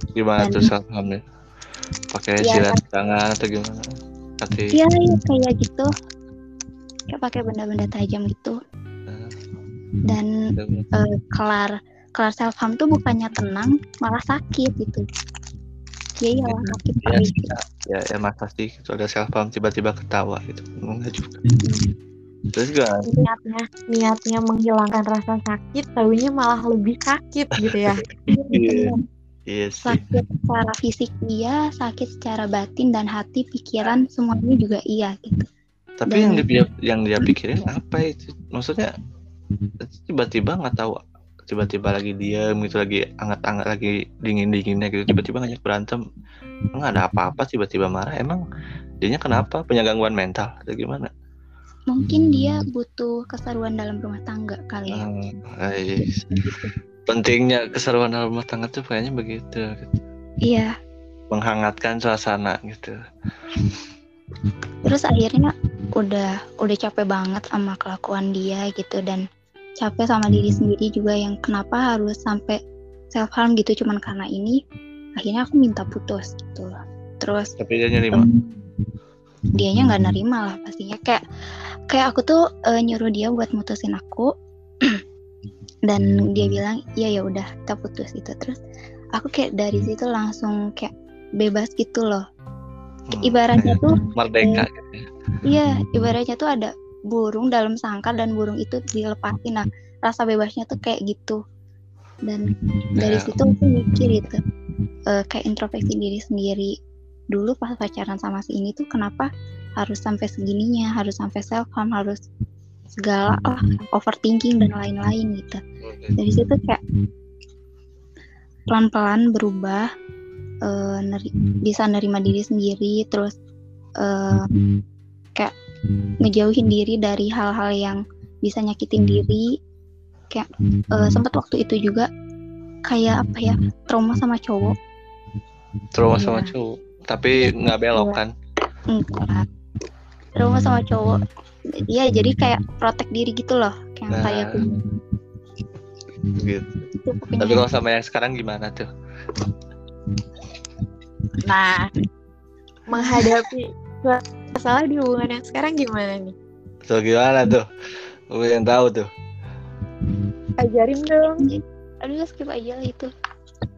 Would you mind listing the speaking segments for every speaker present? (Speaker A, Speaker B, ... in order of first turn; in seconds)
Speaker A: 0.1-1.2, 2.1-3.9, 4.4-4.8, 9.1-9.3, 10.5-10.9, 16.4-21.4, 22.5-23.1, 27.6-27.9, 28.5-28.9, 29.5-30.1, 36.0-38.9, 40.0-46.0, 46.7-48.4, 49.0-51.1, 54.9-56.5, 57.1-60.0, 61.3-62.9, 77.6-78.3, 93.1-95.1, 103.0-103.3, 115.8-116.2, 135.9-138.3, 144.1-144.6, 146.3-146.8, 147.4-148.9, 156.9-157.7, 158.3-159.1
Speaker B: 0.4-0.7, 2.4-2.8, 4.7-5.9, 7.1-8.6, 10.9-15.0, 16.2-17.5, 28.5-28.9, 29.8-35.5, 36.1-36.5, 51.9-55.0, 56.4-56.7, 60.5-60.7, 64.8-69.2, 69.8-72.6, 73.1-74.5, 75.2-77.5, 79.5-81.2, 81.9-84.3, 85.9-88.6, 89.2-92.2, 93.2-94.6, 95.5-101.4, 102.3-104.4, 105.1-106.7, 107.3-109.3, 109.8-112.2, 113.0-115.6, 116.2-116.8, 118.7-119.8, 120.7-123.3, 124.0-124.4, 126.2-129.5, 130.3-132.1, 132.9-134.7, 136.2-136.5, 137.9-138.2, 138.9-139.4, 140.3-141.2, 141.8-144.7, 147.0-147.7, 153.0-153.2, 161.4-163.1
Speaker C: 23.1-28.5, 151.4-151.9, 152.9-156.3, 160.6-161.4